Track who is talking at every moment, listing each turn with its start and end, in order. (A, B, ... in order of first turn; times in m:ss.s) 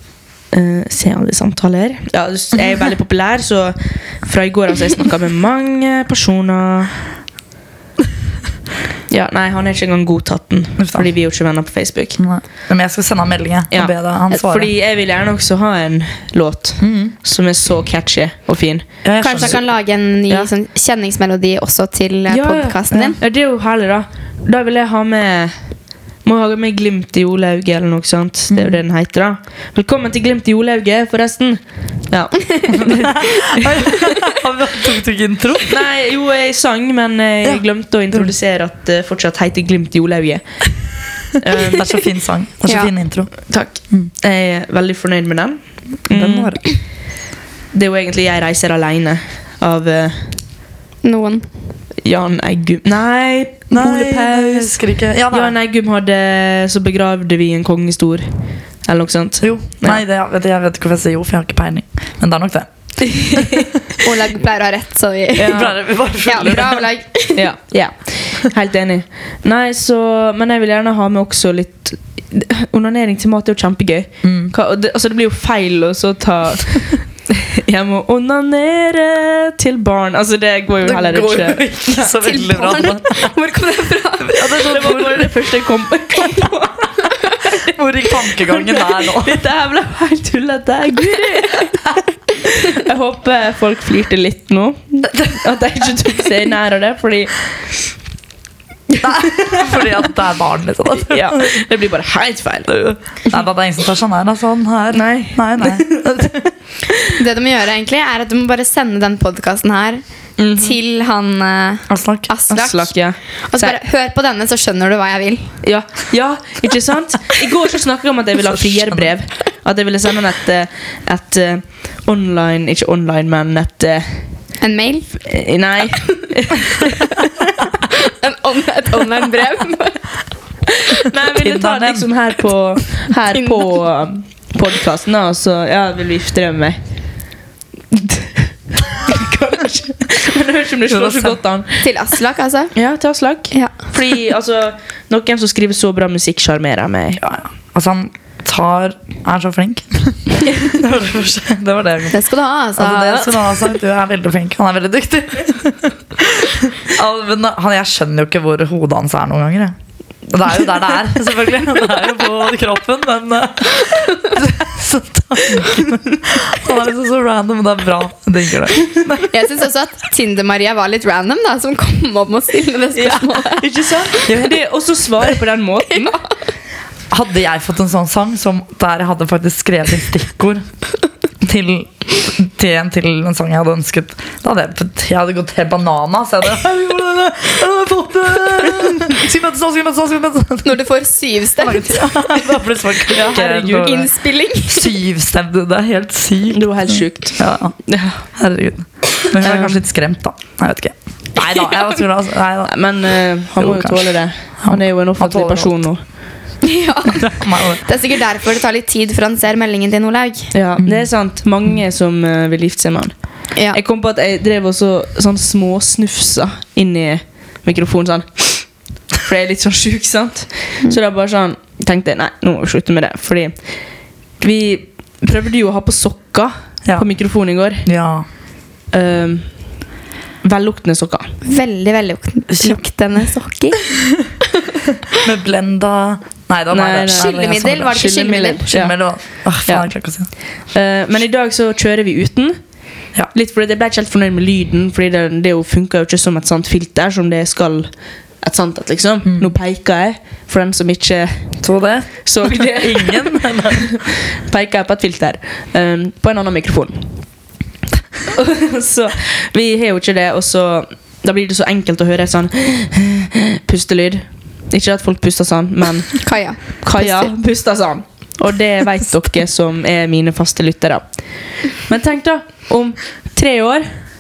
0:00.5-0:07.0 A
0:09.1-0:12.2 A
0:10.8-0:11.1 B
0:12.2-0:14.7 B
0:13.7-0:19.6 A
0:16.8-0:17.1 B
0:19.0-0:19.6 B
0:19.2-0:23.2 C
0:22.3-0:25.6 A
0:26.2-0:33.8 A
0:28.5-0:28.8 B
0:32.8-0:35.8 B
0:35.7-0:41.9 A
0:37.4-0:38.3 B
0:41.7-0:44.1 B
0:42.6-0:42.9 C
0:43.5-0:46.8 A
0:46.1-0:46.6 B
0:47.7-0:50.3 A
0:51.0-0:51.5 C
0:52.0-0:58.2 A
0:53.7-0:55.5 B
0:58.8-1:00.0 A
0:59.4-1:03.7 B
1:03.0-1:03.7 A
1:04.0-1:07.4 C
1:05.4-1:05.7 A
1:05.4-1:06.9 B
1:07.3-1:22.1 A
1:14.2-1:14.5 B
1:20.8-1:23.3 B
1:22.1-1:24.6 C
1:24.2-1:25.4 B
1:24.6-1:27.6 A
1:27.6-1:29.4 B
1:28.3-1:37.5 A
1:38.9-1:39.9 A
1:39.0-1:41.6 B
1:41.0-1:43.4 A
1:42.7-1:46.4 B
1:44.9-1:46.5 A
1:47.2-1:52.9 C
1:50.4-1:50.7 A
1:51.9-1:52.3 B
1:52.5-1:53.8 A
1:53.5-1:55.6 C
1:55.6-2:04.2 A
1:58.5-1:59.1 B
2:04.6-2:05.1 C
2:05.2-2:07.0 A
2:07.8-2:10.1 C
2:10.8-2:11.0 C
2:11.0-2:16.8 A
2:11.4-2:12.1 B
2:13.3-2:13.7 C
2:17.9-2:21.8 A
2:20.9-2:21.4 B
2:21.8-2:22.7 C
2:22.7-2:27.2 A
2:27.2-2:32.2 B
2:32.1-2:33.5 C
2:32.8-2:39.7 B
2:40.3-2:49.3 B
2:49.3-2:53.7 C
2:52.9-2:56.2 A
2:57.1-3:00.6 B
3:01.4-3:10.8 B
3:10.6-3:12.1 C
3:11.6-3:14.1 B
3:13.1-3:14.0 A
3:13.4-3:14.9 C
3:14.6-3:22.7 B
3:16.5-3:18.2 A
3:19.4-3:19.8 A
3:22.7-3:26.0 A
3:23.6-3:24.0 B
3:24.6-3:25.7 B
3:26.6-3:30.5 C
3:27.1-3:27.8 B
3:30.5-3:43.6 A
3:30.8-3:31.1 B
3:44.4-3:47.8 A
3:47.8-3:48.2 B
3:48.9-3:49.5 A
3:50.4-3:51.4 A
3:51.4-3:53.8 C
3:52.5-3:52.8 B
3:55.1-3:58.0 B
3:56.7-3:59.0 A
3:57.1-3:58.6 C
3:58.7-4:00.3 B
3:59.6-3:59.9 A
4:00.7-4:02.6 A
4:03.3-4:07.9 A
4:08.4-4:11.5 A
4:09.2-4:09.5 B
4:11.6-4:14.0 B
4:12.2-4:17.0 A
4:18.3-4:31.2 A
4:26.2-4:27.3 C
4:31.7-4:33.9 A